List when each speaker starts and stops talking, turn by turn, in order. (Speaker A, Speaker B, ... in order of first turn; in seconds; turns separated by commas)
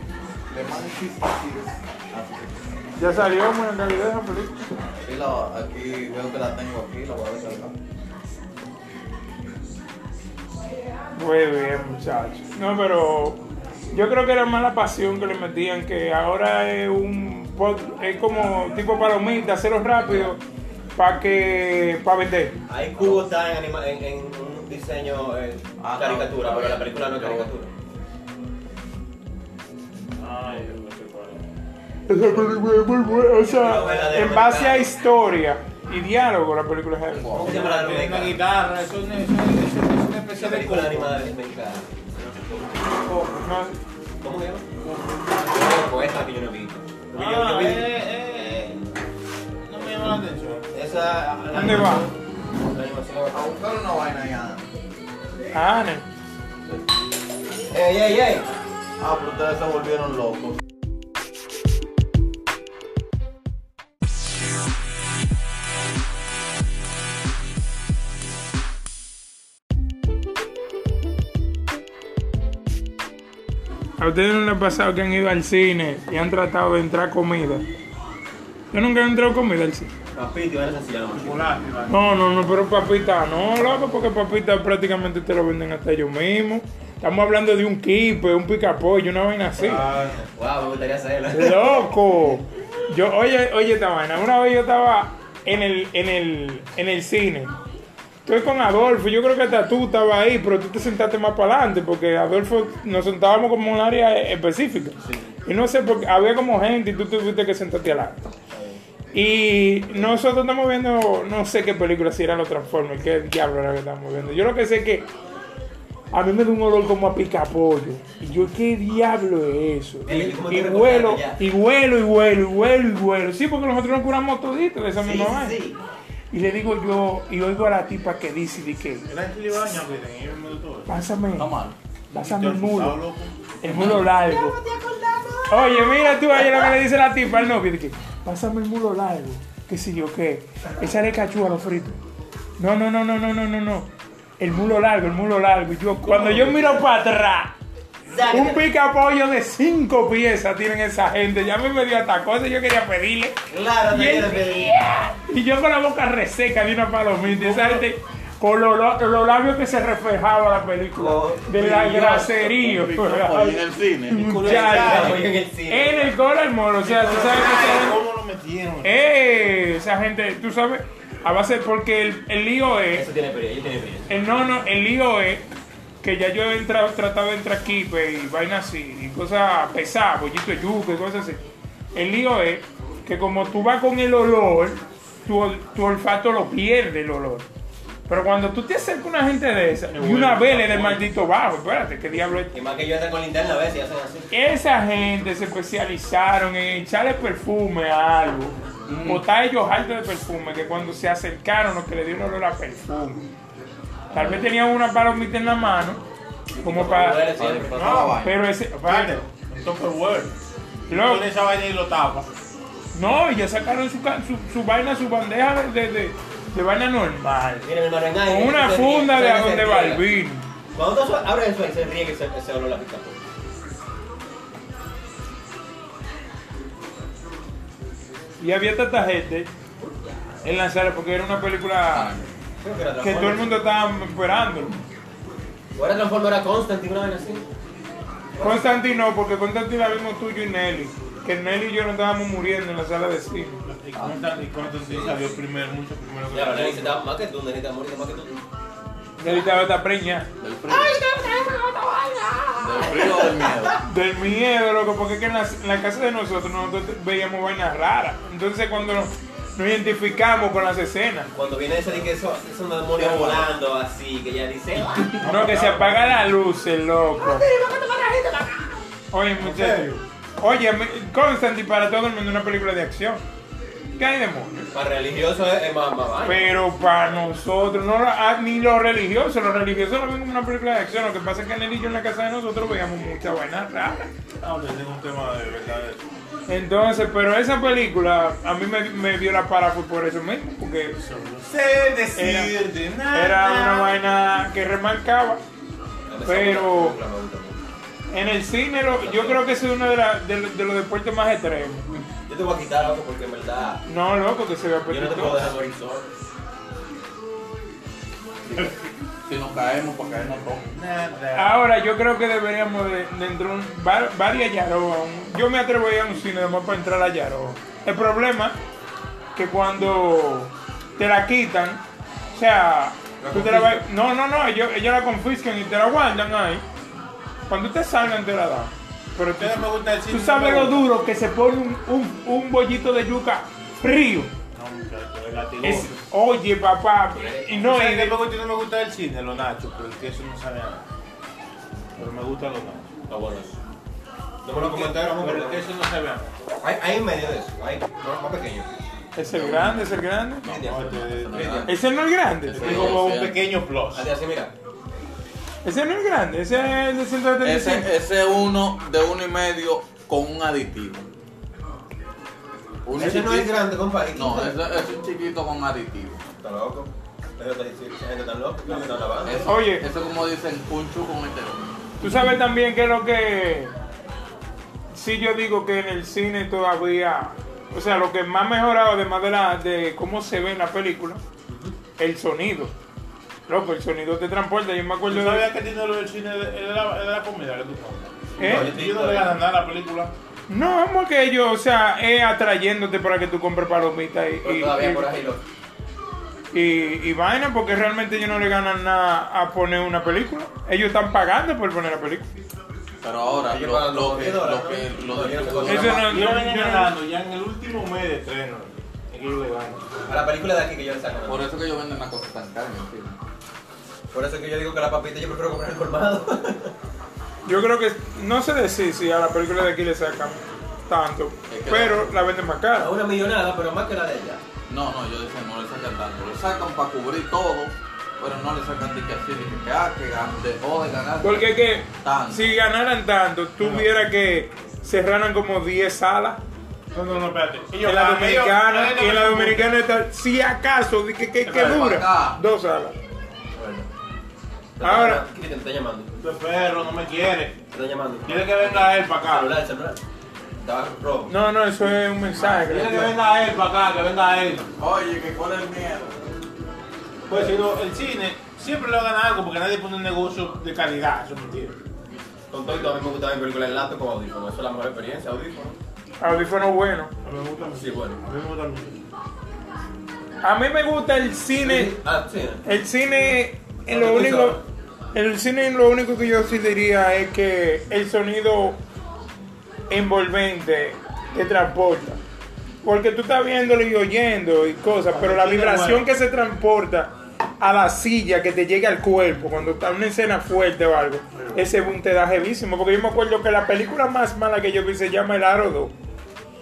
Speaker A: 0.5-2.6, Speaker B: 3.0-4.6, Speaker A: 5.0-7.7, Speaker B: 11.1-13.4, Speaker B: 13.9-20.4, Speaker A: 20.0-20.3, Speaker B: 21.0-22.6, Speaker C: 22.7-27.7, Speaker A: 25.8-27.5, Speaker D: 30.2-31.5, Speaker B: 32.1-37.5, Speaker C: 33.4-34.9, Speaker A: 37.1-37.5, Speaker C: 37.3-38.4, Speaker D: 37.4-41.2, Speaker C: 40.3-43.3, Speaker B: 43.4-43.8, Speaker C: 44.2-44.6, Speaker D: 44.8-45.7, Speaker C: 45.4-47.9, Speaker D: 47.1-48.9, Speaker D: 49.6-50.6, Speaker C: 50.7-53.6, Speaker B: 51.5-52.1, Speaker A: 53.3-54.7, Speaker B: 55.5-56.0, Speaker C: 57.7-58.5, Speaker A: 59.0-60.6, Speaker B: 74.0-77.7, Speaker B: 78.7-79.9, Speaker C: 80.1-81.5, Speaker D: 81.1-81.9, Speaker B: 81.9-89.8, Speaker D: 89.6-90.2, Speaker C: 90.2-91.6, Speaker B: 91.3-97.5, Speaker B: 98.2-108.2, Speaker C: 108.5-108.8, Speaker B: 109.1-115.0, Speaker B: 116.1-125.6, Speaker C: 120.0-121.4, Speaker C: 125.0-125.8, Speaker B: 126.3-129.1, Speaker D: 129.1-130.9, Speaker B: 130.9-131.5, Speaker A: 131.3-131.8, Speaker D: 132.1-133.3, Speaker B: 132.1-133.0, Speaker B: 133.6-134.6, Speaker A: 133.7-134.1, Speaker C: 133.8-136.6, Speaker B: 135.5-142.0, Speaker B: 142.6-143.9, Speaker B: 144.4-147.5, Speaker D: 146.0-146.8, Speaker C: 148.1-148.6, Speaker B: 148.3-153.4, Speaker C: 153.5-154.7, Speaker B: 153.9-163.6, Speaker D: 157.2-157.8, Speaker C: 160.9-162.5, Speaker A: 162.5-164.2, Speaker B: 164.1-167.9, Speaker D: 164.1-165.2, Speaker C: 164.4-166.1, Speaker D: 166.8-168.9, Speaker B: 168.8-173.1, Speaker C: 172.9-174.1, Speaker B: 174.1-175.4, Speaker B: 176.0-181.4, Speaker B: 181.9-187.5, Speaker B: 188.1-192.5, Speaker D: 189.9-191.1, Speaker C: 192.5-194.3, Speaker B: 194.3-203.2, Speaker A: 198.9-199.2, Speaker C: 204.1-204.4, Speaker B: 204.1-206.0, Speaker C: 206.5-208.1, Speaker B: 206.6-207.7, Speaker A: 207.4-208.3, Speaker D: 207.8-210.3, Speaker B: 208.2-209.2, Speaker D: 210.9-212.3, Speaker B: 210.9-211.3, Speaker B: 212.9-217.7, Speaker C: 217.6-220.1, Speaker B: 218.2-220.5, Speaker C: 220.7-223.2, Speaker B: 228.4-229.5, Speaker C: 229.8-230.2, Speaker B: 230.4-232.2, Speaker A: 231.9-232.3, Speaker C: 232.6-233.7, Speaker B: 233.0-234.8, Speaker C: 235.8-237.4, Speaker C: 238.4-238.7, Speaker B: 238.4-243.6, Speaker D: 243.7-247.0, Speaker A: 243.9-244.2, Speaker C: 246.3-248.4, Speaker B: 249.2-250.3, Speaker A: 250.4-251.0, Speaker C: 250.7-253.5, Speaker A: 252.6-253.8, Speaker B: 253.9-261.3, Speaker C: 261.3-265.2, Speaker A: 263.0-263.5, Speaker D: 265.2-266.2, Speaker B: 265.2-267.4, Speaker C: 267.2-268.7, Speaker B: 269.1-269.8, Speaker D: 269.4-270.0, Speaker B: 270.4-273.2, Speaker B: 274.0-274.6, Speaker C: 274.7-276.6, Speaker B: 276.2-284.1, Speaker D: 284.4-286.0, Speaker B: 286.5-291.0, Speaker D: 290.9-294.0, Speaker B: 292.1-292.5, Speaker B: 293.1-295.4, Speaker C: 296.1-297.6, Speaker B: 296.2-297.0, Speaker B: 298.1-302.0, Speaker C: 298.9-299.5, Speaker C: 302.3-303.8, Speaker B: 303.9-305.7, Speaker C: 304.9-306.1, Speaker A: 309.2-310.6, Speaker D: 310.7-311.6, Speaker B: 311.4-318.6, Speaker B: 319.4-321.8, Speaker B: 322.3-326.6, Speaker C: 323.2-323.8, Speaker B: 327.5-334.3, Speaker D: 329.4-330.9, Speaker D: 334.5-336.0, Speaker B: 335.6-338.2, Speaker C: 337.1-337.6, Speaker D: 337.6-340.8, Speaker D: 342.0-342.9, Speaker C: 343.1-343.6, Speaker C: 344.4-345.6, Speaker D: 344.5-346.2, Speaker C: 346.6-348.7, Speaker B: 349.1-350.6, Speaker A: 349.3-351.8, Speaker C: 350.4-351.7, Speaker D: 350.7-351.6, Speaker B: 351.6-352.8, Speaker A: 352.5-353.4, Speaker D: 352.5-354.1, Speaker C: 352.6-353.0, Speaker C: 353.9-354.5, Speaker B: 355.6-357.9, Speaker A: 357.4-361.1, Speaker A: 362.9-363.6, Speaker C: 363.0-364.6, Speaker A: 364.1-366.2, Speaker C: 366.4-369.4, Speaker A: 369.3-371.6, Speaker B: 369.5-369.9, Speaker B: 372.0-373.7, Speaker B: 374.9-381.2, Speaker C: 381.5-381.8, Speaker B: 382.0-382.7, Speaker B: 383.5-385.5, Speaker D: 385.1-390.1, Speaker B: 388.4-388.7, Speaker C: 388.4-389.4, Speaker B: 390.5-395.1, Speaker C: 394.4-395.4, Speaker B: 396.5-402.3, Speaker A: 403.0-406.1, Speaker C: 403.5-406.2, Speaker B: 405.6-406.9, Speaker D: 405.7-409.8, Speaker C: 410.1-411.4, Speaker A: 411.3-413.2, Speaker C: 414.1-416.7, Speaker B: 417.4-422.9, Speaker A: 421.5-422.1, Speaker C: 422.8-424.4, Speaker A: 424.7-432.6, Speaker B: 431.2-436.4, Speaker D: 433.6-433.9, Speaker D: 436.9-439.7, Speaker B: 437.7-442.9, Speaker D: 441.4-441.9, Speaker A: 441.5-442.4, Speaker C: 443.6-443.9, Speaker C: 444.8-446.1, Speaker B: 444.8-445.2, Speaker D: 446.2-447.6, Speaker C: 447.7-450.0, Speaker D: 448.3-449.6, Speaker C: 450.6-451.3, Speaker B: 451.3-453.2, Speaker D: 452.4-454.7, Speaker A: 454.8-456.2, Speaker D: 457.3-461.8, Speaker C: 462.5-465.8, Speaker B: 466.2-467.1, Speaker D: 467.2-469.0, Speaker C: 467.6-468.2, Speaker B: 470.4-471.9, Speaker C: 471.5-472.8, Speaker B: 472.6-474.6, Speaker C: 473.9-474.6, Speaker B: 475.1-478.8, Speaker B: 479.9-482.2, Speaker B: 482.8-495.9, Speaker D: 485.1-486.1